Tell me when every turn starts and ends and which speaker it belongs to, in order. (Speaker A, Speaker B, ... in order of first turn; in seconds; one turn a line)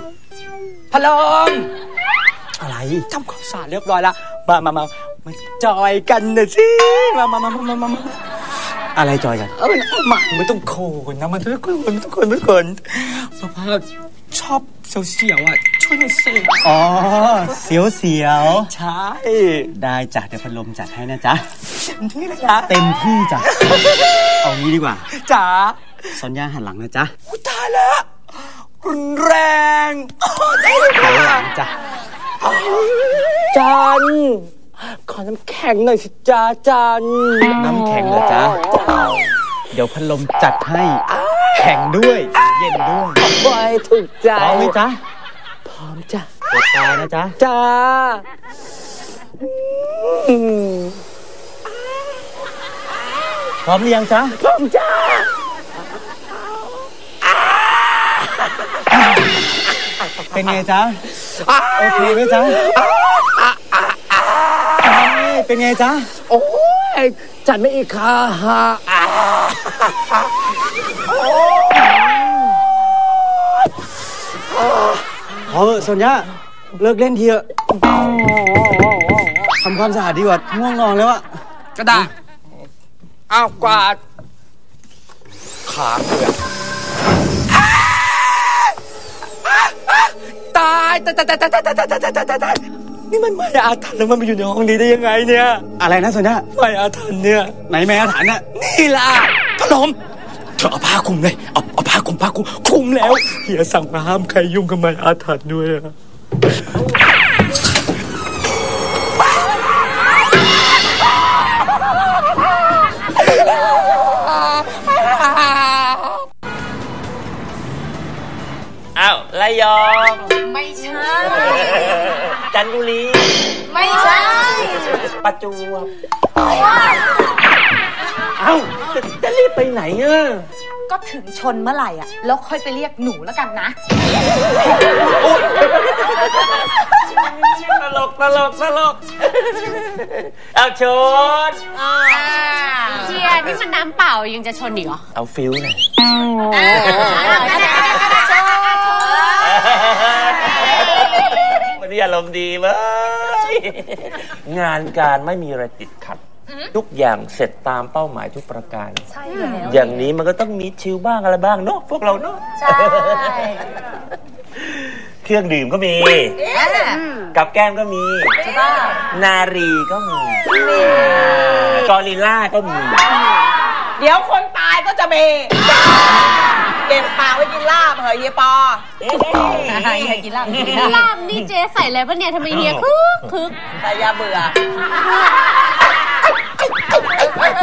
Speaker A: 0.9-1.7
Speaker B: 2.6-3.0
Speaker A: 3.1-8.1
Speaker B: 8.9-9.5
Speaker A: 9.6-16.5
Speaker B: 16.6-18.7
Speaker A: 18.7-19.6
Speaker B: 19.6-21.4
Speaker A: 22.0-22.7
Speaker B: 22.7-23.5
Speaker B: 24.4-25.1
Speaker A: 25.1-25.8
Speaker B: 26.2-27.1
Speaker A: 27.3-28.0
Speaker A: 28.8-31.4
Speaker B: 30.9-31.7
Speaker A: 33.5-37.5
Speaker B: 37.6-38.6
Speaker B: 39.7-41.0
Speaker B: 41.5-43.2
Speaker A: 43.2-44.7
Speaker B: 44.4-45.0
Speaker A: 45.7-46.3
Speaker B: 46.5-47.3
Speaker A: 47.4-48.2
Speaker A: 50.0-50.9
Speaker B: 53.6-54.3
Speaker A: 54.4-55.3
Speaker B: 60.3-61.0
Speaker A: 61.5-63.9
Speaker B: 61.7-62.6
Speaker B: 64.8-66.1
Speaker A: 66.3-69.0
Speaker B: 75.5-77.5
Speaker B: 79.6-81.3
Speaker A: 83.3-84.0
Speaker A: 85.7-86.3
Speaker A: 89.5-95.6
Speaker B: 95.8-96.4
Speaker A: 96.5-97.5
Speaker B: 97.7-98.4
Speaker A: 98.5-100.0
Speaker A: 100.6-105.9
Speaker C: 119.0-120.3
Speaker C: 121.2-123.5
Speaker D: 123.9-124.5
Speaker C: 125.0-125.9
Speaker C: 128.4-130.5
Speaker E: 130.9-133.7
Speaker C: 135.2-136.5
Speaker C: 137.1-139.0
Speaker C: 140.5-141.6
Speaker F: 142.9-145.0
Speaker C: 145.1-145.8
Speaker C: 146.7-147.2
Speaker F: 147.2-147.8
Speaker C: 149.4-151.1
Speaker C: 151.7-156.2
Speaker C: 156.7-159.1
Speaker E: 159.1-160.0
Speaker C: 159.6-163.5
Speaker C: 165.2-166.4
Speaker D: 166.4-166.8
Speaker E: 166.5-166.9
Speaker C: 167.3-168.3
Speaker D: 168.4-169.0
Speaker C: 169.1-173.1
Speaker D: 174.0-176.2
Speaker D: 176.8-178.9
Speaker C: 179.1-181.4
Speaker E: 179.7-180.7
Speaker D: 179.7-180.8
Speaker F: 180.5-183.6
Speaker C: 182.5-182.8
Speaker D: 183.8-184.6